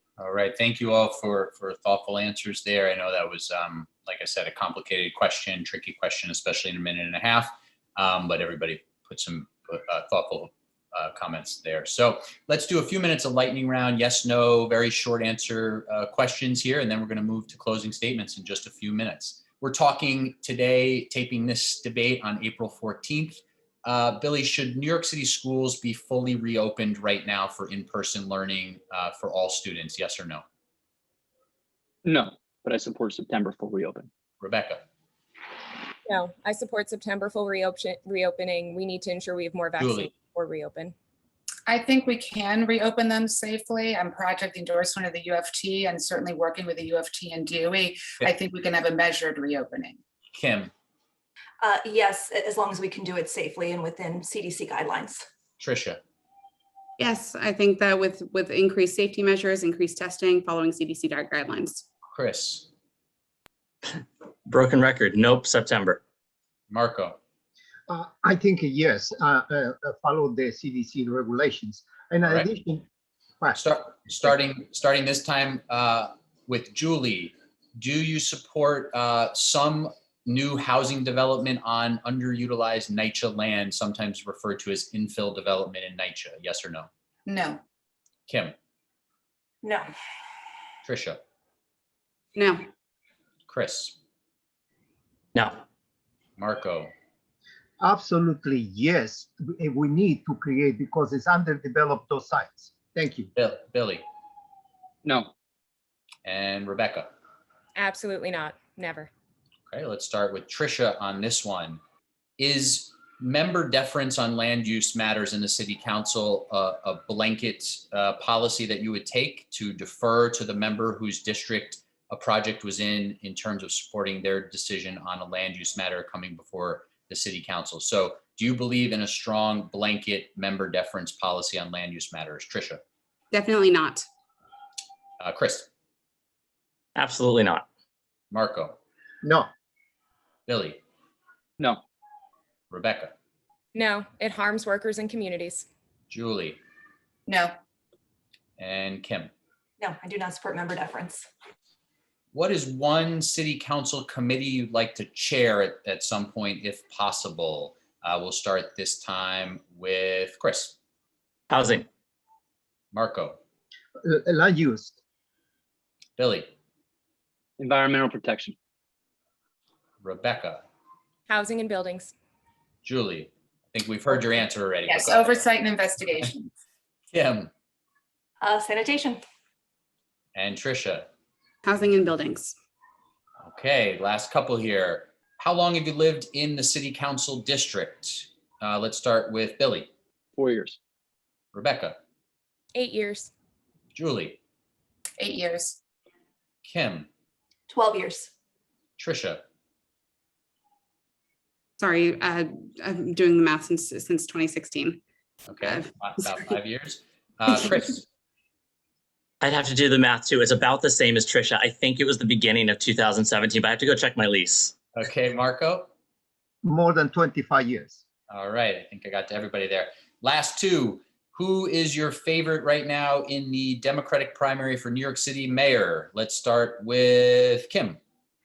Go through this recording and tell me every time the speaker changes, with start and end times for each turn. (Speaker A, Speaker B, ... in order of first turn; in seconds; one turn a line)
Speaker A: 0.2-30.4
Speaker B: 32.0-34.1
Speaker A: 34.4-34.8
Speaker C: 36.1-40.9
Speaker A: 39.8-40.1
Speaker D: 41.7-50.0
Speaker A: 50.4-50.7
Speaker E: 51.6-55.2
Speaker A: 55.6-56.0
Speaker F: 57.0-61.9
Speaker A: 62.1-62.7
Speaker G: 64.5-66.0
Speaker A: 66.7-67.2
Speaker H: 67.9-72.8
Speaker A: 73.5-86.9
Speaker D: 87.3-87.6
Speaker A: 88.3-88.5
Speaker E: 89.6-89.9
Speaker A: 90.9-91.2
Speaker F: 92.4-92.7
Speaker A: 93.5-94.0
Speaker G: 95.3-95.6
Speaker A: 96.4-96.9
Speaker H: 97.8-103.3
Speaker A: 103.4-104.0
Speaker B: 105.0-105.3
Speaker A: 106.2-107.1
Speaker C: 107.8-109.1
Speaker A: 109.7-111.8
Speaker A: 112.4-132.8
Speaker F: 133.3-134.1
Speaker A: 135.2-135.7
Speaker G: 137.0-137.7
Speaker A: 138.3-138.8
Speaker H: 139.2-139.5
Speaker A: 140.5-140.8
Speaker A: 142.7-143.1
Speaker C: 143.7-145.7
Speaker A: 146.1-146.6
Speaker D: 147.3-147.5
Speaker A: 148.6-149.3
Speaker E: 149.8-151.2
Speaker A: 152.3-160.8
Speaker G: 161.5-161.9
Speaker A: 162.9-163.4
Speaker H: 164.0-165.0
Speaker A: 166.2-166.5
Speaker B: 167.6-168.6
Speaker A: 170.0-170.6
Speaker C: 171.3-172.1
Speaker A: 172.8-175.5
Speaker D: 174.9-176.5
Speaker A: 177.1-177.5
Speaker E: 178.4-179.2
Speaker A: 180.3-181.1
Speaker F: 181.7-182.6
Speaker A: 183.4-189.9
Speaker B: 190.3-190.8
Speaker A: 191.5-192.0
Speaker C: 192.8-193.3
Speaker A: 194.0-194.4
Speaker D: 195.2-195.8
Speaker A: 196.7-197.1
Speaker E: 197.7-198.3
Speaker A: 199.0-199.4
Speaker F: 201.8-205.0
Speaker A: 205.5-208.1
Speaker F: 205.6-205.9
Speaker G: 209.4-214.8
Speaker A: 214.9-215.9
Speaker H: 216.6-218.0
Speaker A: 218.3-228.0